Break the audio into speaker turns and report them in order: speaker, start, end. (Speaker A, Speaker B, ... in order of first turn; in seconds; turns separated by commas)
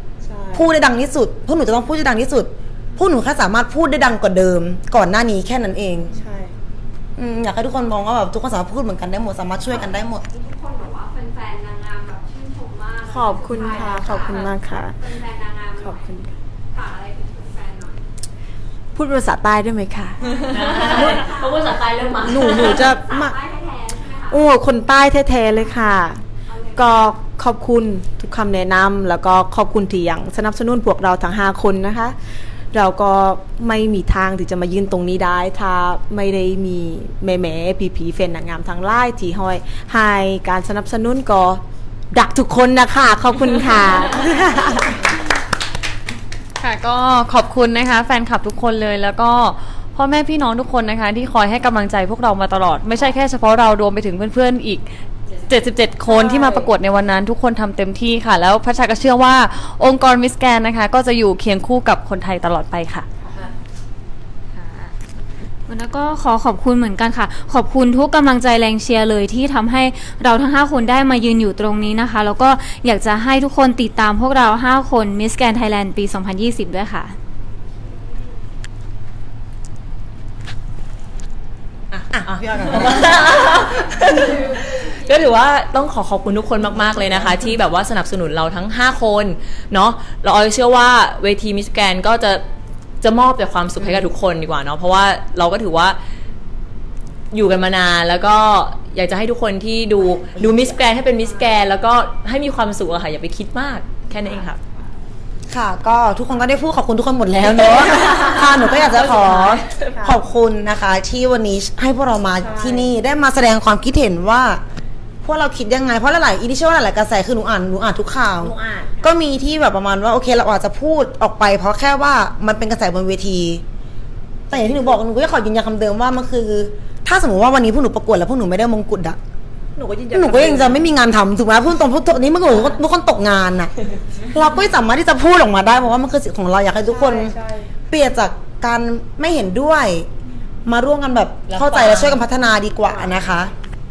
Speaker A: 0.2-0.7, Speaker B: 0.5-6.1, Speaker A: 6.1-6.5, Speaker B: 7.2-10.2, Speaker C: 9.6-18.1, Speaker A: 13.1-14.9, Speaker A: 15.8-16.3, Speaker A: 18.9-21.1, Speaker C: 20.2-24.5, Speaker D: 20.4-22.9, Speaker A: 22.2-23.3, Speaker A: 24.3-26.2, Speaker C: 25.6-27.2, Speaker A: 26.8-32.2, Speaker A: 32.7-45.0, Speaker E: 46.6-55.0, Speaker D: 55.3-56.0, Speaker E: 55.5-63.1, Speaker A: 56.0-56.7, Speaker F: 64.5-64.9, Speaker F: 65.7-77.2, Speaker C: 77.8-78.2, Speaker B: 81.9-83.2, Speaker D: 81.9-92.4, Speaker C: 83.3-86.4, Speaker D: 93.0-96.0, Speaker D: 97.3-104.6, Speaker B: 100.4-100.6, Speaker C: 101.1-101.7, Speaker B: 105.5-114.6, Speaker A: 108.0-110.2, Speaker D: 109.2-109.8, Speaker A: 112.4-112.9, Speaker B: 115.2-118.5, Speaker A: 118.4-119.1, Speaker B: 119.0-123.6, Speaker B: 124.5-129.2, Speaker A: 124.5-125.0, Speaker A: 129.7-130.8, Speaker B: 130.1-133.7, Speaker B: 134.3-137.3, Speaker A: 136.8-137.7, Speaker B: 137.9-140.1, Speaker B: 140.7-143.5, Speaker D: 141.5-142.2, Speaker A: 142.9-143.3